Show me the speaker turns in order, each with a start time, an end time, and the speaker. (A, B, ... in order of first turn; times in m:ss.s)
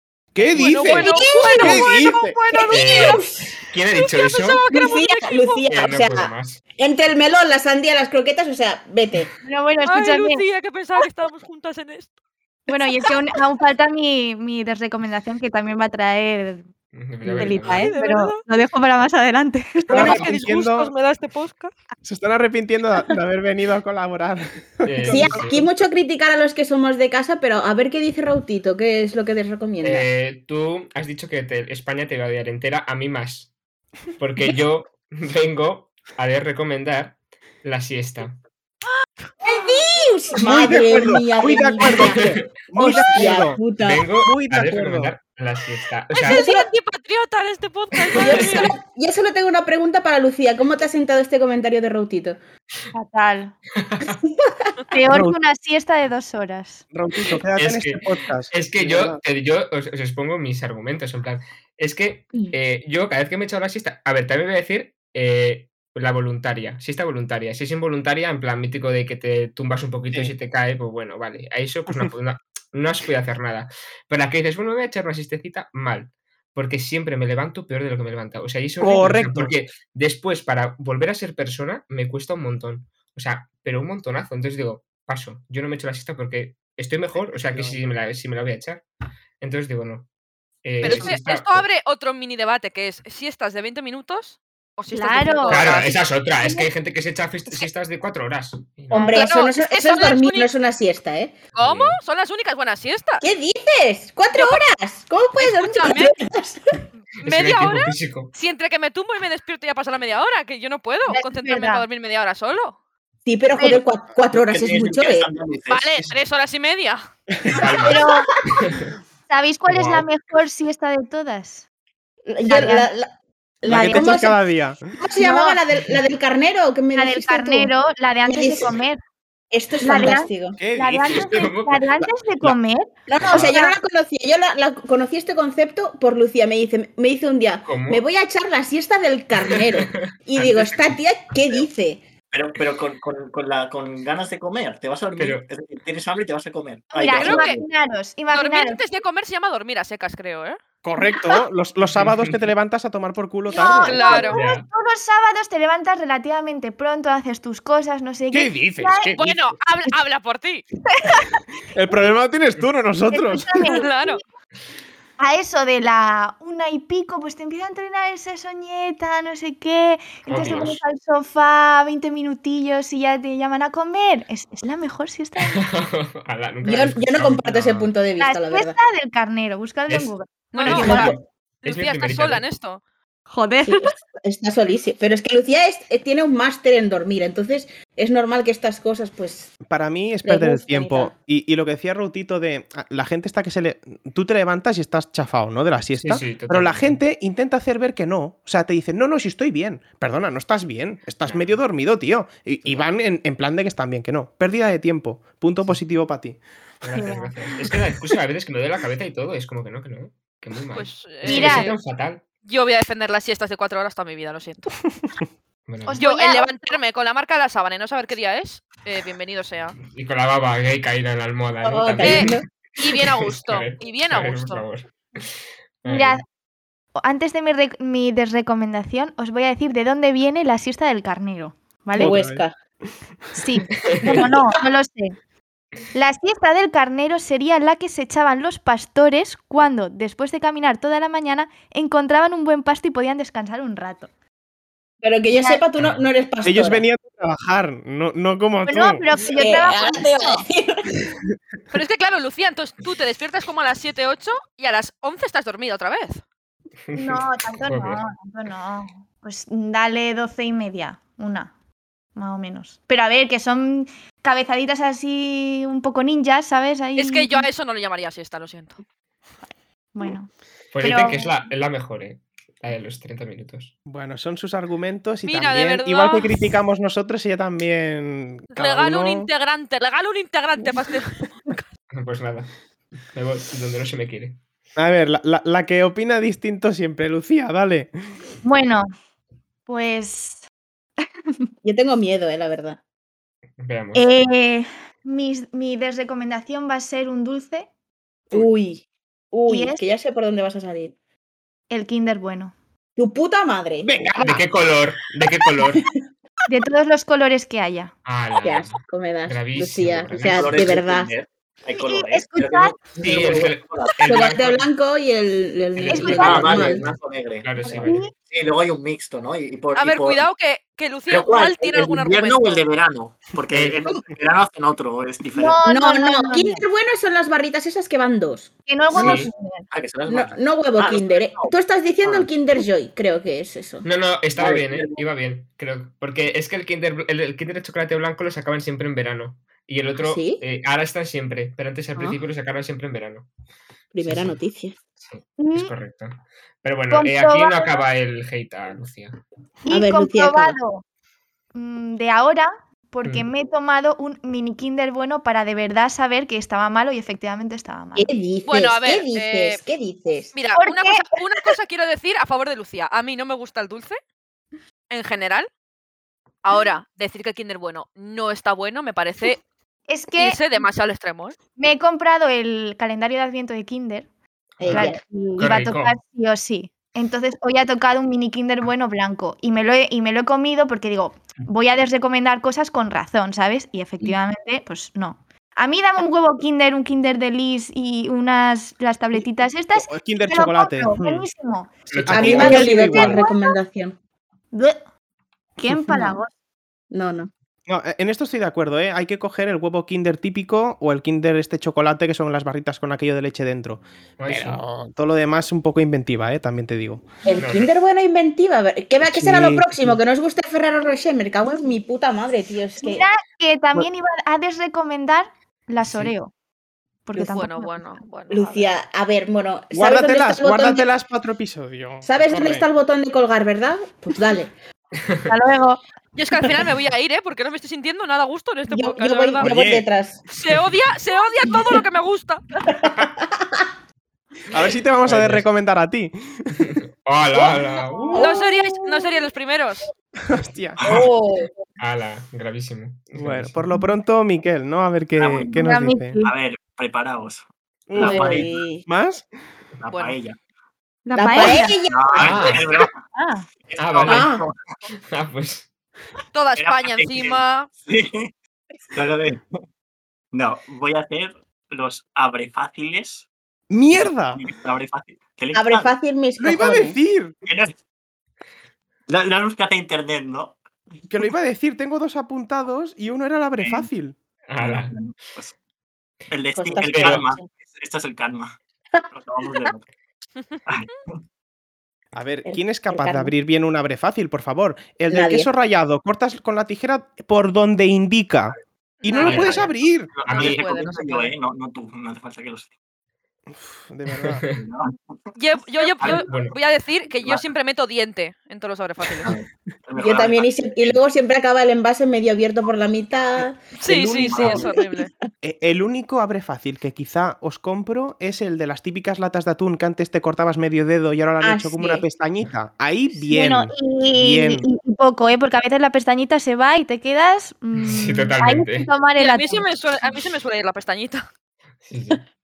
0:00.3-0:02.4 A
0:00.4-0:03.2 B
0:00.9-0:01.8 C
0:00.9-0:01.9 D
0:02.5-0:03.5 D
0:02.7-0:04.6 E
0:04.0-0:05.6 B
0:04.7-0:09.3 D
0:05.7-0:06.6 E
0:09.4-0:10.4 C
0:09.8-0:12.1 B
0:12.7-0:16.7 C
0:16.9-0:17.9 E
0:17.2-0:20.1 C
0:17.4-0:18.4 B
0:19.9-0:21.7 B
0:19.9-0:20.9 A
0:19.9-0:20.2 D
0:22.0-0:25.7 A
0:24.8-0:25.6 E
0:25.1-0:30.1 D
0:29.8-0:33.5 E
0:34.2-0:38.4 E
0:39.4-0:44.1 D
0:40.4-0:43.6 A
0:42.1-0:42.4 E
0:43.7-0:46.4 E
0:44.2-0:45.1 A
0:46.1-0:48.7 B
0:46.3-0:46.7 D
0:48.1-0:48.7 E
0:48.1-0:52.4 D
0:52.9-0:53.5 C
0:53.7-0:54.2 E
0:54.0-0:54.7 D
0:54.9-0:56.8 C
0:55.1-0:55.4 A
0:56.9-0:59.2 A
0:57.3-1:28.8 E
1:18.8-1:19.5 A
1:27.4-1:27.8 A
1:29.4-1:30.1 E
1:30.6-1:31.7 E
1:30.8-1:36.1 B
1:34.9-1:36.7 C
1:35.5-1:39.2 E
1:38.9-1:41.3 D
1:39.1-1:40.5 B
1:41.5-1:43.2 B
1:41.6-1:42.0 E
1:43.2-1:46.8 D
1:44.3-1:44.6 B
1:45.4-1:46.2 B
1:47.2-1:48.3 E
1:47.2-1:52.8 B
1:51.1-1:51.8 C
1:53.2-1:55.3 D
1:54.5-1:56.1 F
1:55.7-1:57.0 B
1:57.5-1:58.9 E
1:57.8-1:58.3 C
1:59.3-2:01.6 C
1:59.7-2:00.1 E
2:02.3-2:04.3 D
2:02.4-2:02.9 C
2:03.6-2:04.3 C
2:03.6-2:04.8 A
2:05.0-2:07.7 D
2:05.2-2:05.6 C
2:06.9-2:09.0 C
2:08.2-2:08.7 D
2:09.5-2:10.6 D
2:09.8-2:13.8 C
2:10.6-2:11.5 A
2:11.1-2:12.6 E
2:13.1-2:22.0 D
2:13.2-2:13.5 E
2:17.6-2:18.0 E
2:19.5-2:20.8 E
2:22.3-2:27.6 F
2:25.1-2:25.4 E
2:26.9-2:28.8 C
2:27.1-2:27.6 B
2:28.3-2:30.6 B
2:30.8-2:34.2 A
2:31.8-2:32.5 E
2:33.5-2:39.1 C
2:33.8-2:34.4 B
2:34.2-2:34.7 E
2:38.3-2:39.4 A
2:38.6-2:39.2 E
2:39.1-2:40.6 B
2:40.9-2:41.3 C
2:41.7-2:43.6 A
2:43.1-2:44.2 C
2:43.6-2:44.2 B
2:45.2-2:55.6 C
2:50.3-2:50.8 E
2:55.4-2:57.9 E
2:56.6-2:58.8 D
2:58.2-3:01.2 C
2:59.9-3:02.4 E
3:00.5-3:02.8 B
3:00.7-3:01.0 D
3:03.3-3:03.9 C
3:03.6-3:09.5 D
3:09.6-3:26.4 A
3:10.2-3:11.1 D
3:15.9-3:17.0 E
3:21.2-3:21.6 E
3:26.8-3:32.2 E
3:26.9-3:27.3 C
3:30.7-3:31.8 B
3:31.2-3:31.7 C
3:32.4-3:34.7 B
3:35.6-3:36.0 E
3:35.8-3:36.5 C
3:36.0-3:39.8 B
3:39.9-3:46.2 E
3:41.6-3:42.4 D
3:42.0-3:44.6 B
3:45.8-3:46.2 C
3:47.0-3:52.2 C
3:51.9-3:52.5 D
3:52.0-3:52.4 A
3:53.3-3:55.2 C
3:53.7-3:54.2 E
3:55.9-4:04.1 C
4:05.0-4:06.8 D
4:05.3-4:05.6 C
4:06.4-4:09.1 A
4:08.6-4:10.4 C
4:09.2-4:10.9 D
4:11.7-4:16.2 B
4:16.9-4:18.0 E
4:16.9-4:21.5 C
4:22.2-4:27.5 C
4:27.0-4:28.8 B
4:29.9-4:30.3 C
4:30.7-4:33.7 E
4:30.8-4:31.3 C
4:33.9-4:39.3 A
4:35.2-4:36.4 B
4:38.6-4:41.6 B
4:41.9-4:42.5 E
4:43.1-4:44.4 E
4:44.8-4:47.9 A
4:48.4-4:48.9 C
4:49.7-4:50.4 C
4:51.6-4:52.8 D
4:53.6-4:54.2 E
4:53.9-4:57.7 C
4:58.3-5:00.9 D
4:59.5-4:59.8 C
5:01.7-5:02.5 C
5:03.0-5:04.4 D
5:03.8-5:04.5 A
5:04.2-5:05.8 E
5:06.5-5:07.9 C
5:08.0-5:10.8 E
5:08.4-5:11.1 D
5:10.2-5:14.1 F
5:11.7-5:13.0 C
5:13.0-5:14.7 E
5:14.0-5:16.8 D
5:15.8-5:18.1 E
5:15.9-5:16.7 C
5:16.1-5:20.2 F
5:17.6-5:18.1 C
5:19.7-5:22.6 B
5:21.1-5:25.6 F
5:23.5-5:23.8 E
5:25.4-5:26.6 C
5:25.6-5:29.2 D
5:28.7-5:29.7 C
5:28.9-5:29.3 E
5:29.7-5:32.3 F
5:30.1-5:33.9 D
5:33.8-5:43.3 E
5:34.4-5:35.0 F
5:40.0-5:40.4 D
5:43.9-5:44.8 D
5:44.0-5:44.4 E
5:45.0-5:49.2 E
5:45.4-5:45.7 C
5:46.9-5:47.8 C
5:49.6-5:50.8 C
5:49.7-5:50.6 D
5:51.5-5:58.1 C
5:53.0-5:53.3 E
5:58.0-6:00.3 D
5:58.4-5:59.6 B
6:00.3-6:04.0 B
6:00.6-6:01.0 C
6:04.9-6:05.5 B
6:06.4-6:09.4 B
6:09.9-6:10.4 C
6:10.1-6:11.4 B
6:11.6-6:14.1 C
6:14.6-6:15.0 D
6:14.6-6:16.0 E
6:14.7-6:33.6 C
6:29.7-6:31.3 A
6:31.9-6:32.7 E
6:31.9-6:33.2 A
6:32.1-6:34.0 D
6:34.5-6:34.8 C
6:35.6-6:36.3 C
6:35.7-6:36.2 D
6:36.9-6:37.3 D
6:37.6-6:47.1 A
6:44.2-6:44.8 E
6:47.2-6:53.1 D
6:47.4-6:47.7 E
6:49.1-6:50.0 A
6:52.8-6:56.3 C
6:57.0-6:57.9 C
6:57.1-6:57.4 D
6:57.3-6:58.8 B
6:58.3-7:00.9 D
6:59.7-7:02.7 A
7:02.0-7:04.5 D
7:05.0-7:05.3 E
7:05.3-7:05.8 C
7:06.1-7:09.5 B
7:08.7-7:10.2 D
7:09.4-7:09.9 A
7:10.3-7:12.6 B
7:12.7-7:13.6 D
7:14.5-7:16.7 A
7:15.0-7:15.4 E
7:16.6-7:18.3 E
7:17.3-7:18.6 D
7:18.1-7:19.9 B
7:20.2-7:20.8 A
7:20.8-7:21.5 D
7:21.8-7:23.6 E
7:23.2-7:26.2 A
7:25.2-7:25.5 F
7:25.5-7:26.3 C
7:26.2-7:28.6 F
7:27.9-7:29.2 A
7:27.9-7:28.8 D
7:29.8-7:30.4 F
7:29.9-7:30.2 B
7:31.0-7:31.8 C
7:31.1-7:32.6 D
7:31.4-7:33.0 F
7:32.2-7:32.8 E
7:33.1-7:33.4 C
7:33.7-7:34.6 F
7:33.8-7:34.3 E
7:34.0-7:34.4 D
7:35.1-7:35.7 E
7:36.3-7:37.7 B
7:36.6-7:38.3 F
7:38.9-7:39.5 F
7:40.3-7:43.3 F
7:43.7-7:44.5 A
7:43.9-7:45.9 F
7:45.5-7:47.0 D
7:46.4-7:47.3 A
7:47.4-7:47.8 F
7:49.1-7:50.6 F
7:51.1-7:54.2 A
7:53.6-7:53.9 F
7:54.5-7:55.0 E
7:54.6-7:55.5 F
7:56.3-7:58.6 F
7:56.5-7:57.5 D
7:56.8-7:57.3 E
7:59.1-7:59.8 F
8:00.7-8:01.2 F
8:02.1-8:10.1 A
8:02.4-8:03.3 D
8:05.1-8:05.5 D
8:09.0-8:09.7 B
8:09.2-8:12.7 F
8:09.3-8:09.5 E
8:10.2-8:10.6 E
8:10.3-8:11.3 B
8:13.5-8:14.4 A
8:14.2-8:14.6 E
8:14.5-8:15.0 F
8:15.3-8:19.3 B
8:16.0-8:16.4 F
8:16.0-8:16.6 E
8:19.1-8:21.0 F
8:20.0-8:25.0 D
8:23.8-8:25.1 B
8:24.3-8:24.6 F
8:25.4-8:34.7 A
8:31.4-8:32.0 D
8:33.2-8:39.7 C
8:37.7-8:38.9 E
8:39.2-8:41.2 B
8:41.8-8:42.2 E